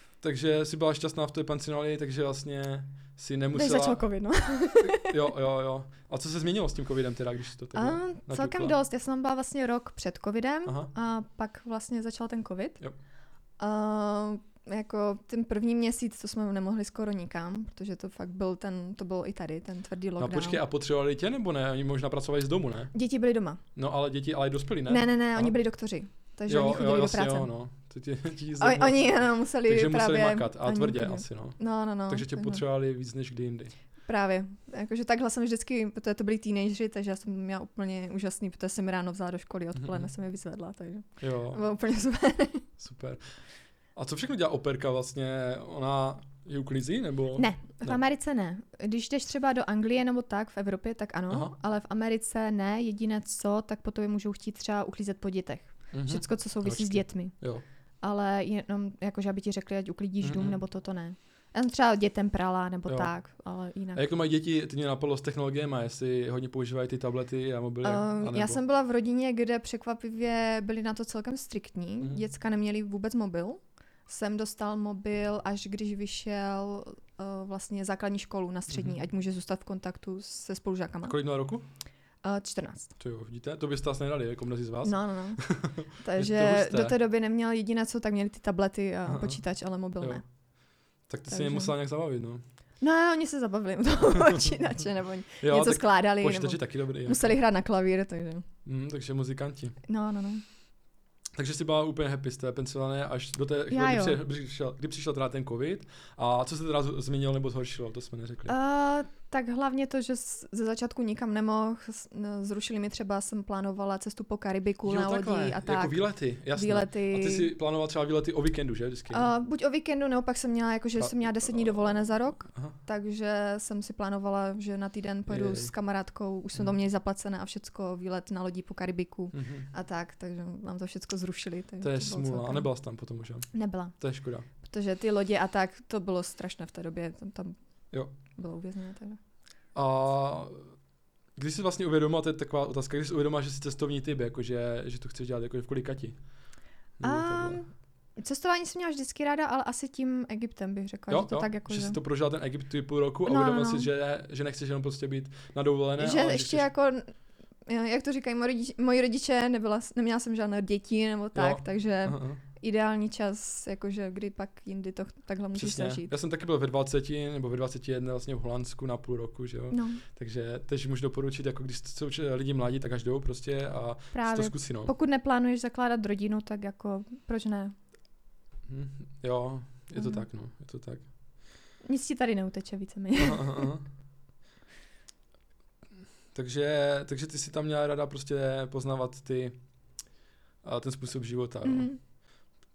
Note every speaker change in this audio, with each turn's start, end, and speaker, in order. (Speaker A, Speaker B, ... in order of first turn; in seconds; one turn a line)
Speaker A: 0.2-4.0
Speaker B: 3.5-5.2
Speaker A: 4.8-8.8
Speaker B: 7.8-12.8
Speaker A: 10.7-10.9
Speaker B: 13.6-20.6
Speaker A: 20.2-22.9
Speaker B: 22.9-23.6
Speaker A: 23.8-25.5
Speaker B: 24.9-27.5
Speaker A: 26.5-33.7
Speaker B: 28.6-32.6
Speaker B: 34.1-42.7
Speaker A: 39.8-40.1
Speaker A: 41.2-41.6
Speaker A: 42.8-43.2
Speaker A: 44.0-48.0
Speaker B: 47.4-57.3
Speaker A: 55.9-57.6
Speaker B: 58.0-64.0
Speaker A: 60.2-60.6
Speaker A: 64.0-68.6
Speaker B: 67.8-81.2
Speaker A: 78.7-79.0
Speaker A: 81.1-81.6
Speaker B: 82.2-82.9
Speaker A: 83.0-87.0
Speaker B: 84.8-90.2
Speaker A: 89.1-89.4
Speaker A: 91.1-92.4
Speaker B: 91.3-91.7
Speaker B: 92.8-98.5
Speaker A: 95.4-97.3
Speaker A: 98.7-99.8
Speaker B: 99.9-100.4
Speaker A: 101.4-108.5
Speaker B: 103.7-104.2
Speaker B: 108.5-117.5
Speaker A: 114.8-119.3
Speaker B: 119.1-132.7
Speaker A: 121.0-122.0
Speaker A: 122.5-122.8
Speaker A: 125.3-125.7
Speaker A: 129.3-129.7
Speaker A: 131.8-134.5
Speaker B: 133.5-133.9
Speaker B: 134.6-137.6
Speaker B: 138.3-139.2
Speaker A: 139.8-140.7
Speaker A: 141.4-146.2
Speaker A: 147.0-147.6
Speaker B: 147.0-152.0
Speaker A: 151.1-156.7
Speaker B: 153.3-153.9
Speaker B: 156.0-157.1
Speaker B: 157.7-166.1
Speaker A: 161.3-162.4
Speaker A: 165.5-174.9
Speaker B: 169.7-170.0
Speaker B: 174.1-177.7
Speaker A: 178.7-181.1
Speaker B: 180.0-180.2
Speaker B: 181.8-183.7
Speaker A: 183.2-183.8
Speaker A: 186.3-189.6
Speaker A: 190.6-191.9
Speaker B: 191.7-192.0